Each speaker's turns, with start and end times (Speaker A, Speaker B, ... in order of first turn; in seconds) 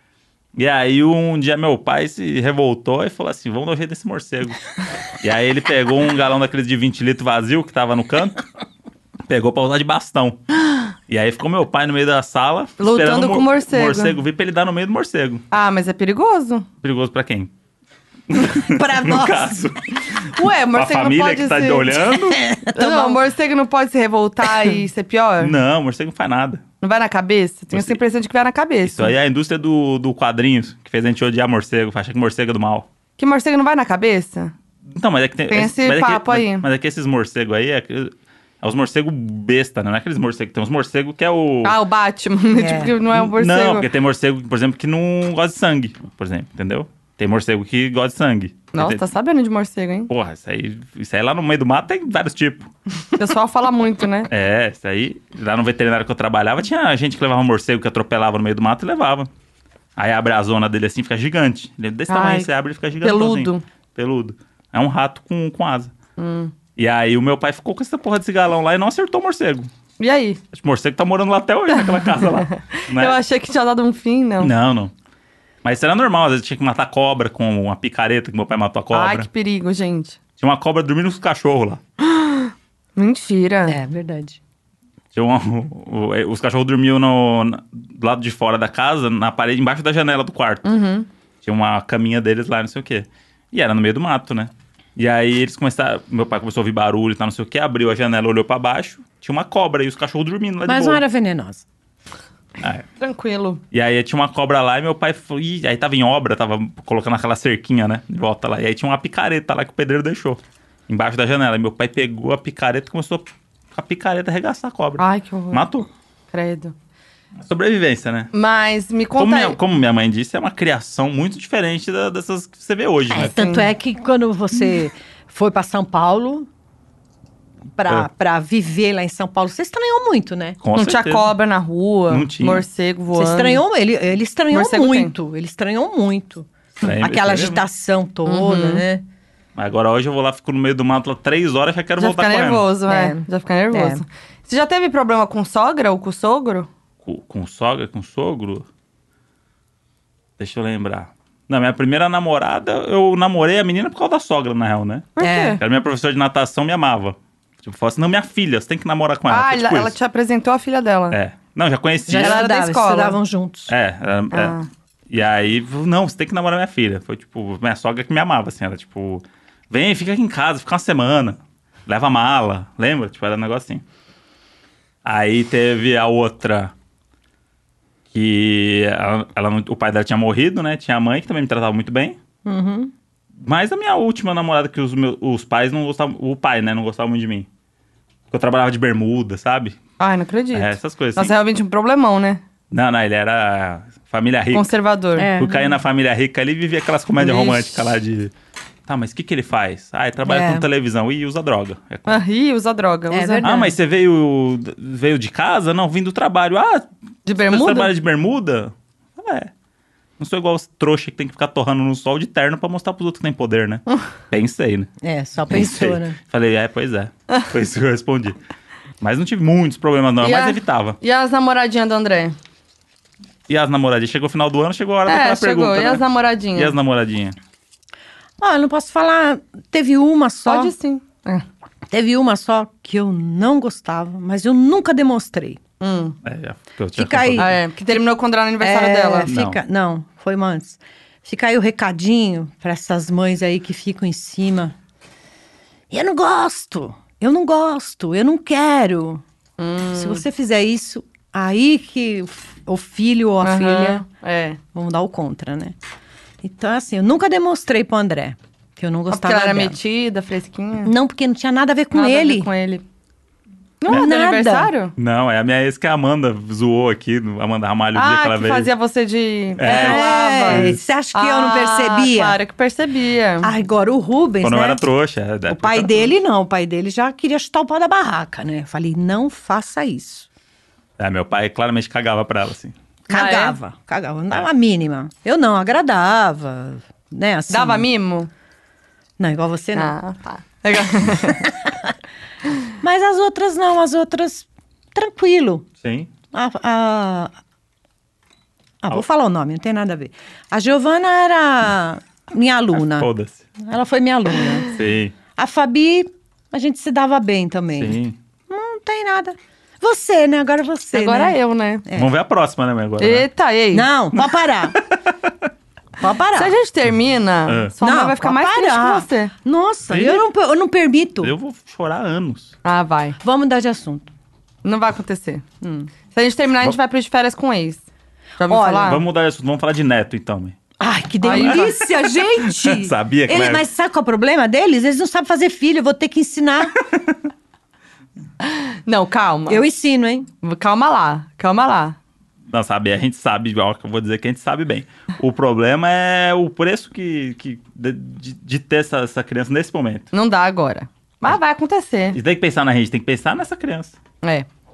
Speaker A: 0.5-8.4, 9.3-10.4, 11.1-15.4, 16.8-17.5, 18.3-22.4, 25.4-26.6, 27.7-28.0, 28.8-32.9, 34.9-41.8, 43.1-49.0, 50.1-52.7, 54.3-59.3, 60.0-65.9, 66.8-69.7, 70.5-73.2, 74.4-74.9, 75.6-79.3, 80.4-81.8, 85.1-90.6, 91.4-101.0, 102.6-102.8, 103.7-115.9, 117.4-118.3, 119.2-123.4, 130.6-131.3, 132.1-132.6, 136.8-137.6, 139.5-142.7, 147.0-148.7, 150.4-159.9, 161.1-162.4, 163.7-164.6, 165.1-173.8, 175.0-176.7, 178.1-182.2, 183.4-187.5, 188.3-189.8, 190.5-191.3, 192.7-194.7, 195.3-198.3, 198.9-202.2, 203.4-206.9, 207.4-209.5, 210.2-214.9, 215.5-218.3, 219.0-221.0, 223.5-226.0, 226.5-227.3, 236.2-237.5, 239.3-239.6, 264.9-268.7, 269.6-270.8, 274.4-276.1, 281.0-282.7, 295.8-296.1, 302.9-303.4, 304.7-305.1, 307.8-308.1, 311.9-313.3, 314.8-315.3, 317.5-317.7, 319.9-320.2, 321.2-322.5, 328.9-330.6, 331.3-331.8, 332.5-333.6, 342.5-350.1, 352.1-353.9
Speaker B: 12.8-14.2, 15.5-16.7, 20.4-22.0, 22.7-25.5, 26.8-29.1, 33.2-34.5, 35.5-36.6, 41.6-43.9, 48.7-50.1, 53.1-54.3, 62.1-62.5, 63.0-63.6, 66.2-66.5, 70.0-70.4, 71.7-74.5, 78.9-80.2, 82.1-83.8, 90.6-91.1, 103.0-103.6, 115.0-115.6, 116.3-116.7, 118.3-119.6, 123.3-123.7, 130.7-133.6, 134.5-135.1, 138.2-138.8, 142.0-146.7, 155.2-155.6, 159.3-161.2, 162.1-163.2, 164.3-164.7, 190.0-192.4, 194.5-195.3, 197.2-197.8, 202.1-203.6, 207.2-207.9, 220.2-222.3, 225.1-226.7, 230.4-231.4, 235.8-236.2, 237.4-239.3, 249.6-250.2, 253.4-254.6, 259.1-260.9, 261.9-262.8, 263.8-264.9, 267.9-273.5, 283.1-283.6, 287.5-288.3, 289.8-291.4, 310.9-311.8, 313.0-313.9, 316.3-319.3, 322.6-323.2, 324.6-327.8, 328.4-329.0, 331.2-331.8, 338.4-339.6, 340.4-341.9, 350.1-352.2, 354.2-354.5
Speaker C: 18.6-19.6, 22.1-23.2, 42.5-42.9, 83.7-84.4, 100.7-101.6, 123.1-126.5, 127.8-130.6, 133.1-139.0, 142.9-144.0, 155.2-155.6, 162.1-163.7, 182.4-182.9, 195.2-195.7, 200.2-200.7, 203.1-203.7, 215.0-216.2, 228.4-230.7, 231.9-235.6, 236.9-238.0, 238.6-244.8, 245.9-249.2, 249.9-254.0, 254.7-255.8, 256.4-259.8, 260.8-262.5, 263.9-264.7, 269.6-272.4, 273.4-274.8, 275.5-280.3, 283.1-287.9, 289.2-289.9, 291.3-291.9, 292.8-295.6, 296.3-297.3, 298.8-304.7, 305.3-308.0, 308.5-312.1, 313.7-314.8, 316.0-316.5, 317.8-321.3, 323.2-324.1, 328.5-328.9, 330.8-336.8, 339.5-340.3